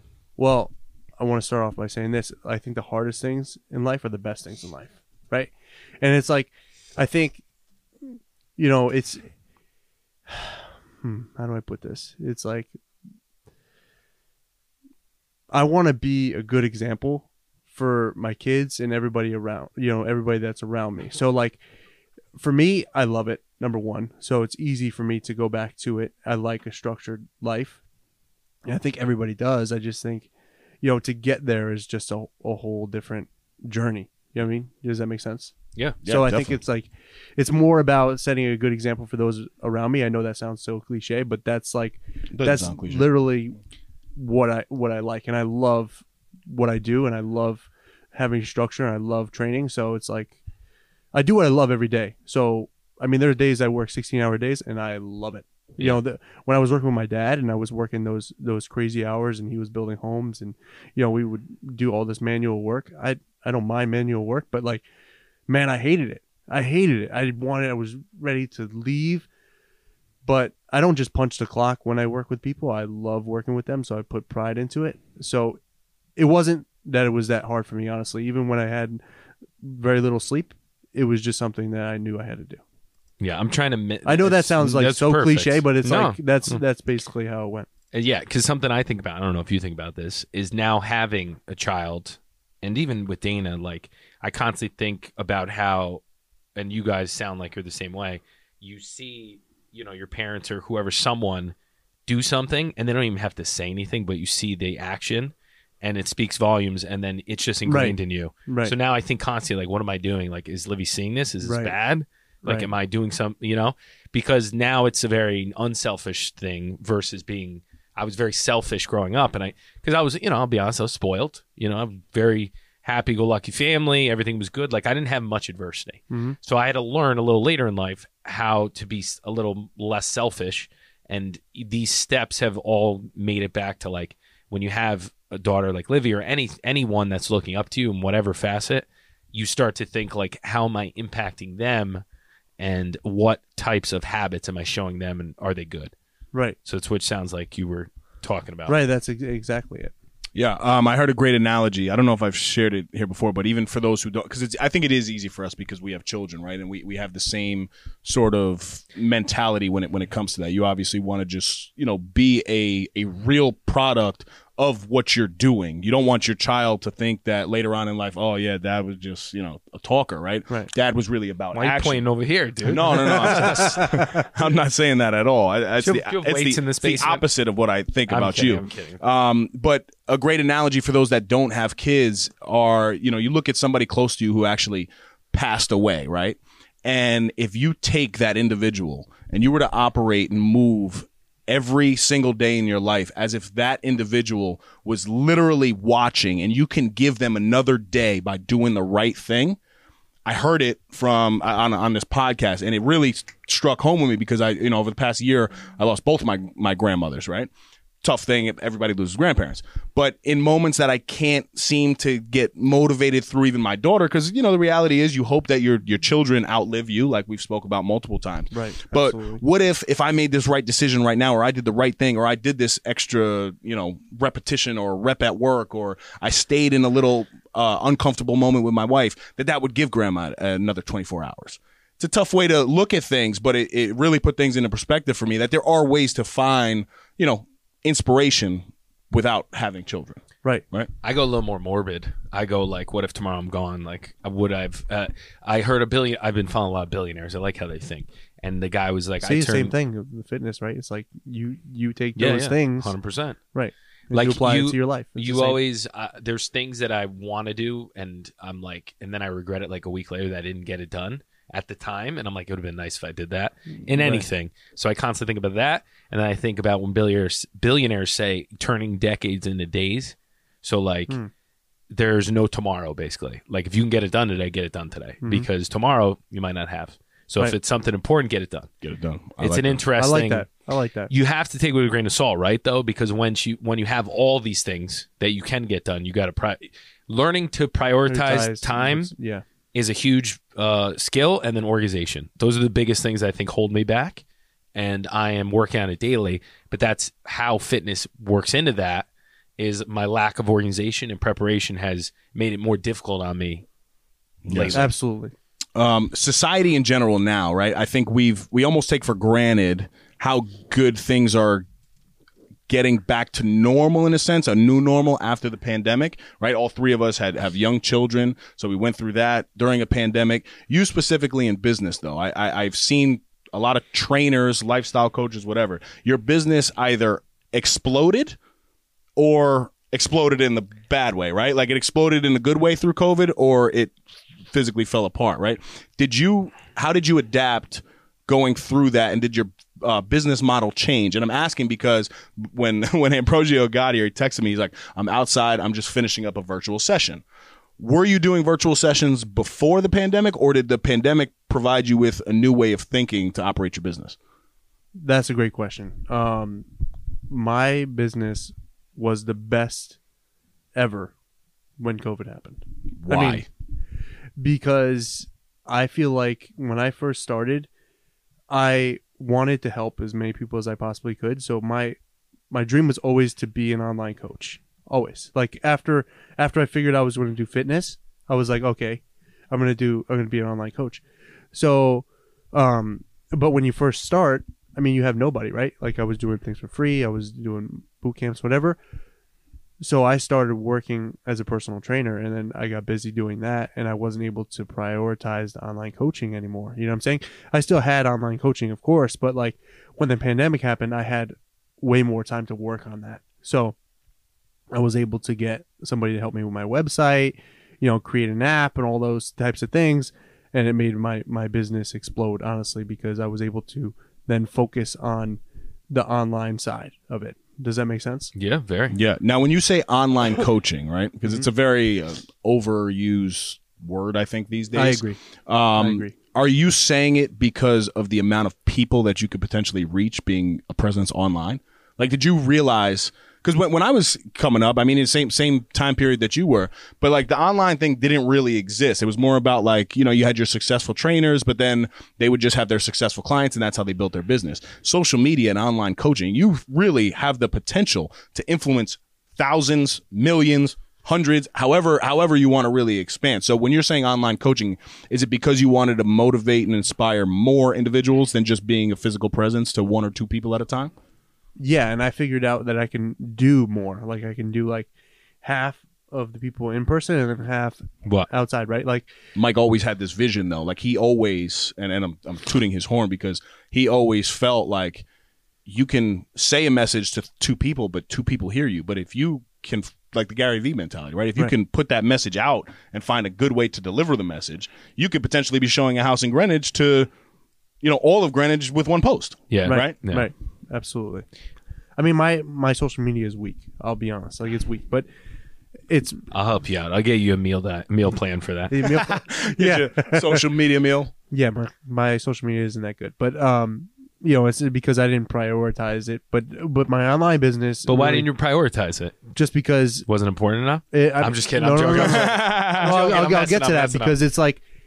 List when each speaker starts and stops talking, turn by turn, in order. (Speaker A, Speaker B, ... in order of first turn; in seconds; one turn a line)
Speaker A: 0.4-7.4
Speaker A: 8.6-9.2
Speaker A: 10.3-12.7
Speaker A: 15.5-21.6
Speaker A: 22.4-27.8
Speaker A: 28.6-30.3
Speaker A: 30.8-35.5
Speaker B: 36.0-36.6
Speaker A: 36.0-43.6
Speaker B: 42.3-43.1
Speaker A: 44.1-50.4
Speaker A: 51.1-64.8
Speaker A: 65.5-69.3
Speaker A: 70.2-75.6
Speaker A: 76.2-79.0
Speaker A: 79.6-82.6
Speaker C: 83.2-86.6
Speaker A: 84.0-87.7
Speaker C: 87.9-96.0
Speaker C: 96.5-101.5
Speaker C: 102.1-142.0
Speaker A: 107.7-108.7
Speaker A: 111.4-111.7
Speaker A: 126.1-126.4
Speaker C: 142.6-145.9
Speaker C: 146.6-148.8
Speaker A: 148.7-149.9
Speaker B: 150.3-172.0
Speaker C: 171.5-174.1
Speaker B: 172.6-199.6
Speaker A: 173.6-174.0
Speaker C: 175.8-177.2
Speaker C: 178.1-179.0
Speaker B: 200.2-207.5
Speaker B: 208.0-240.9
Speaker A: 218.5-219.4
Speaker C: 241.0-249.7
Speaker A: 249.2-252.9
Speaker C: 252.2-253.4
Speaker A: 253.5-255.6
Speaker C: 254.1-271.1
Speaker A: 263.9-264.3
Speaker C: 271.9-278.7
Speaker B: 278.8-279.8
Speaker C: 279.4-280.4
Speaker A: 280.0-281.1
Speaker C: 281.1-289.1
Speaker A: 288.1-289.4
Speaker C: 289.7-294.2
Speaker C: 294.7-299.1
Speaker C: 299.6-303.6
Speaker B: 304.4-304.8
Speaker C: 304.5-304.9
Speaker A: 304.7-305.3
Speaker B: 305.7-311.6
Speaker B: 312.7-328.4
Speaker B: 329.2-333.9
Speaker B: 334.5-347.2
Speaker B: 347.8-354.1
Speaker A: 354.9-356.6
Speaker A: 357.3-360.0
Speaker A: 360.7-361.1
Speaker A: 361.8-362.6
Speaker B: 363.0-363.5
Speaker C: 363.1-363.4
Speaker A: 364.4-367.7
Speaker A: 368.5-371.9
Speaker A: 372.5-381.0
Speaker A: 381.5-388.8
Speaker A: 389.8-403.7
Speaker A: 404.7-418.3
Speaker C: 418.3-419.0
Speaker B: 418.9-460.9
Speaker A: 424.7-425.2
Speaker A: 425.8-426.1
Speaker A: 461.6-464.9
Speaker A: 465.4-469.1
Speaker B: 469.4-475.0
Speaker B: 475.6-487.1
Speaker B: 487.8-489.9
Speaker C: 489.5-490.3
Speaker A: 489.6-491.2
Speaker A: 492.0-495.1
Speaker A: 495.9-496.2
Speaker C: 496.3-498.8
Speaker A: 498.7-500.4
Speaker B: 498.8-501.1
Speaker A: 501.3-508.3
Speaker C: 507.9-509.2
Speaker A: 509.3-510.1
Speaker C: 510.1-514.2
Speaker A: 510.9-514.6
Speaker B: 511.9-513.1